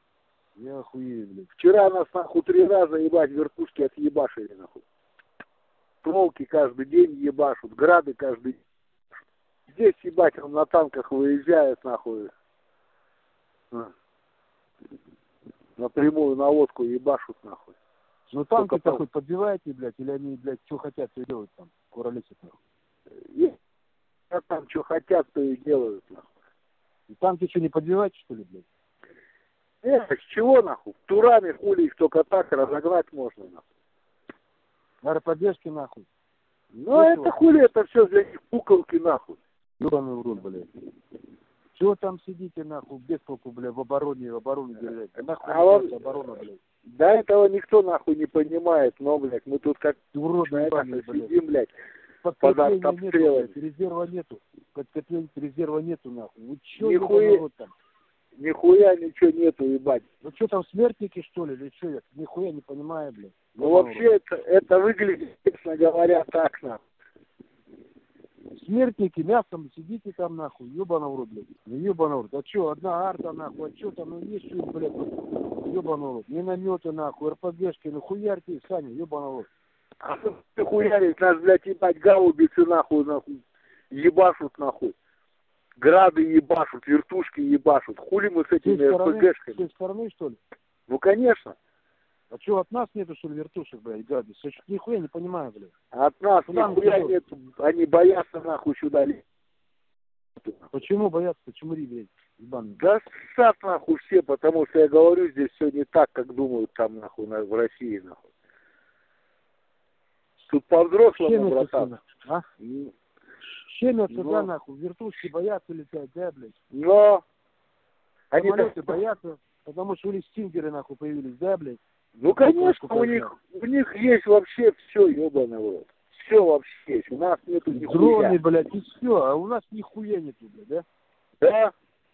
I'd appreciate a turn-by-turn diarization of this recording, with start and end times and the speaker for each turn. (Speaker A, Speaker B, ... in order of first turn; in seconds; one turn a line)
Speaker A: 0.6-1.5
Speaker B: 1.6-4.8
Speaker B: 6.0-8.6
Speaker B: 9.7-12.3
Speaker B: 15.8-17.8
Speaker A: 18.3-22.6
Speaker B: 18.6-19.0
Speaker B: 24.3-26.3
Speaker A: 27.1-28.7
Speaker B: 29.8-33.6
Speaker A: 35.0-36.1
Speaker B: 36.8-39.4
Speaker A: 36.9-37.6
Speaker A: 39.8-40.7
Speaker A: 41.8-46.6
Speaker B: 45.5-45.9
Speaker B: 47.0-51.7
Speaker A: 50.1-51.3
Speaker A: 52.2-57.7
Speaker B: 52.4-53.5
Speaker B: 56.8-57.4
Speaker B: 58.4-60.1
Speaker A: 60.2-64.1
Speaker B: 63.6-66.8
Speaker A: 68.5-79.5
Speaker B: 80.0-85.0
Speaker B: 85.8-89.6
Speaker A: 88.6-90.4
Speaker B: 90.9-91.6
Speaker A: 92.3-95.7
Speaker B: 95.9-99.2
Speaker A: 96.5-97.2
Speaker A: 100.7-102.8
Speaker B: 102.8-108.2
Speaker B: 110.5-111.9
Speaker A: 111.2-112.5
Speaker B: 112.6-112.9
Speaker A: 113.7-116.6
Speaker B: 114.1-114.5
Speaker B: 116.7-117.2
Speaker B: 118.3-118.9
Speaker A: 118.4-123.3
Speaker B: 122.2-128.4
Speaker A: 127.7-130.8
Speaker B: 131.4-131.7